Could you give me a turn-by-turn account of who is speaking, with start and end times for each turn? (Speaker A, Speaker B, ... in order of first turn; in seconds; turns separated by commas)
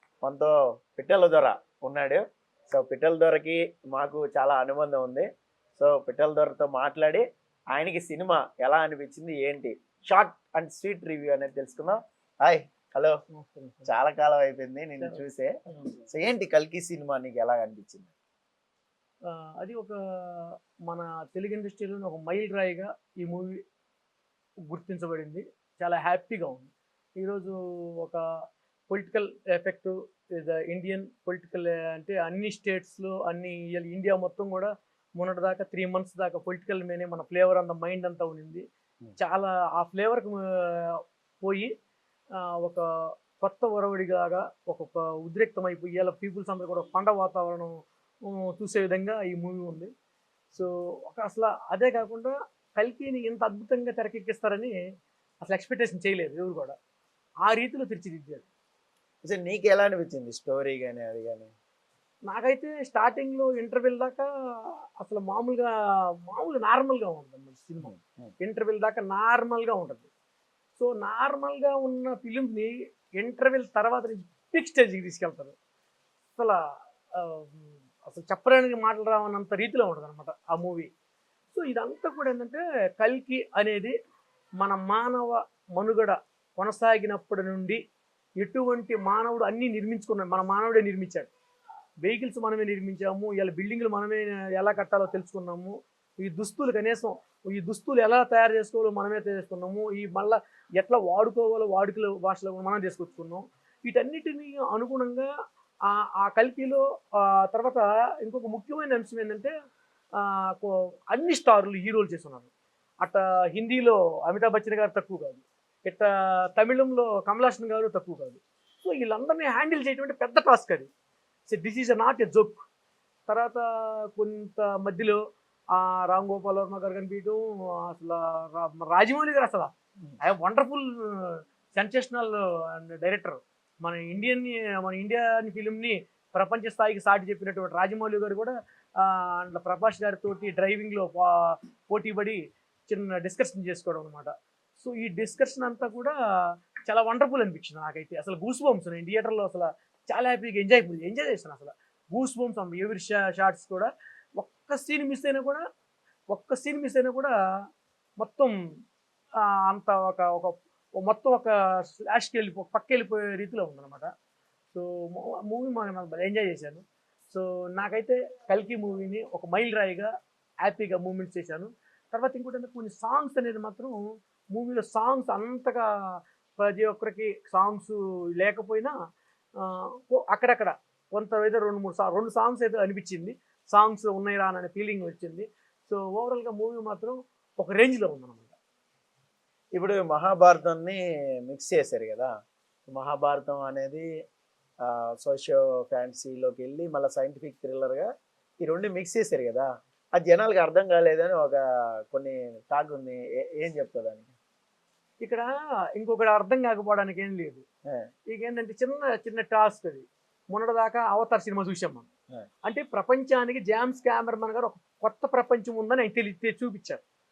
Speaker A: 0.2-13.2, Speaker B: 13.3-13.9, Speaker A: 13.9-15.5, Speaker B: 15.0-16.0, Speaker A: 16.1-18.1, Speaker B: 19.3-23.5, Speaker B: 24.7-28.2, Speaker B: 28.9-38.6, Speaker B: 39.2-41.7, Speaker B: 42.4-42.8, Speaker B: 43.4-49.9, Speaker B: 50.5-54.7, Speaker B: 55.4-56.7, Speaker B: 57.4-58.4, Speaker A: 59.2-61.5, Speaker B: 62.3-70.1, Speaker A: 67.8-68.3, Speaker B: 70.8-75.5, Speaker B: 77.1-80.9, Speaker B: 81.5-83.9, Speaker B: 84.6-87.8, Speaker B: 88.4-91.3, Speaker B: 92.0-105.3, Speaker B: 105.9-109.5, Speaker B: 110.2-112.5, Speaker B: 113.0-120.9, Speaker B: 121.5-122.6, Speaker B: 123.3-125.2, Speaker B: 125.7-146.1, Speaker B: 146.8-155.6, Speaker B: 156.3-157.3, Speaker B: 158.2-158.6, Speaker B: 159.7-164.1, Speaker B: 164.7-170.1, Speaker B: 170.6-174.0, Speaker B: 174.5-175.9, Speaker B: 176.6-178.9, Speaker B: 179.6-188.6, Speaker A: 189.7-192.3, Speaker A: 192.9-194.1, Speaker A: 194.8-198.1, Speaker A: 198.6-204.3, Speaker B: 205.2-207.6, Speaker B: 208.3-212.1, Speaker B: 212.7-217.0